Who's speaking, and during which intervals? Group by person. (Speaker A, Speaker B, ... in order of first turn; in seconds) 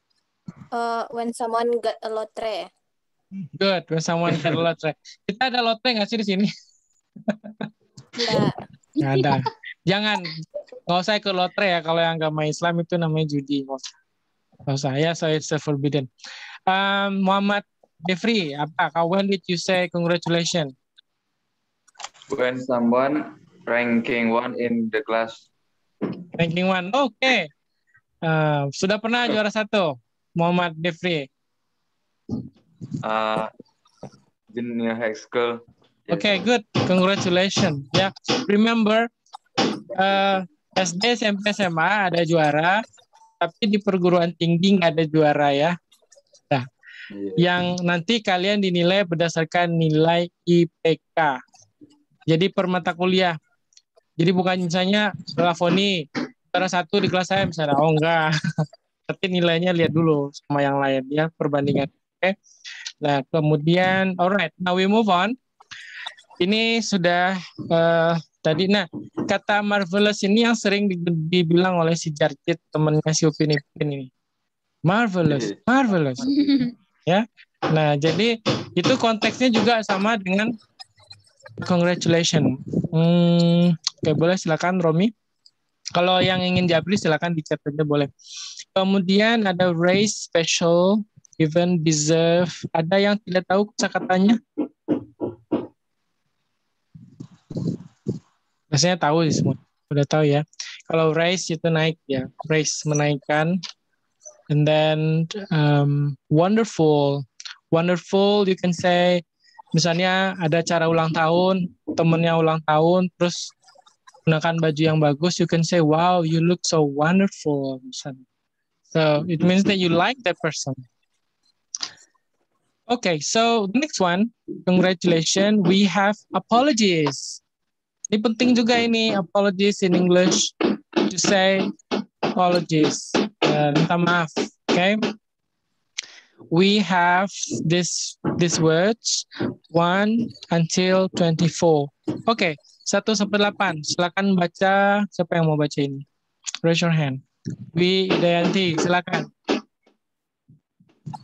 Speaker A: 0.7-2.7, 8.2-8.5
Speaker B: 3.5-6.5, 7.3-7.7, 9.0-13.8, 14.7-16.1, 16.7-20.7, 26.4-27.5, 28.2-31.3, 36.1-39.1, 39.9-42.8, 43.4-45.8, 47.4-51.4, 52.3-53.4, 54.2-58.3, 59.1-62.3, 63.0-65.3, 66.4-74.1, 74.8-76.2, 77.1-80.5, 81.6-85.1, 86.0-88.1, 88.7-94.4, 98.7-103.6, 104.5-109.2, 109.7-113.5, 114.2-118.2, 118.9-120.8, 122.9-127.4, 128.1-130.5, 131.1-131.7, 132.3-135.0, 136.5-146.0, 146.6-147.2, 147.7-149.3
Speaker C: 22.3-25.4, 33.0-33.5, 34.5-36.4, 47.1-47.5, 75.3-75.6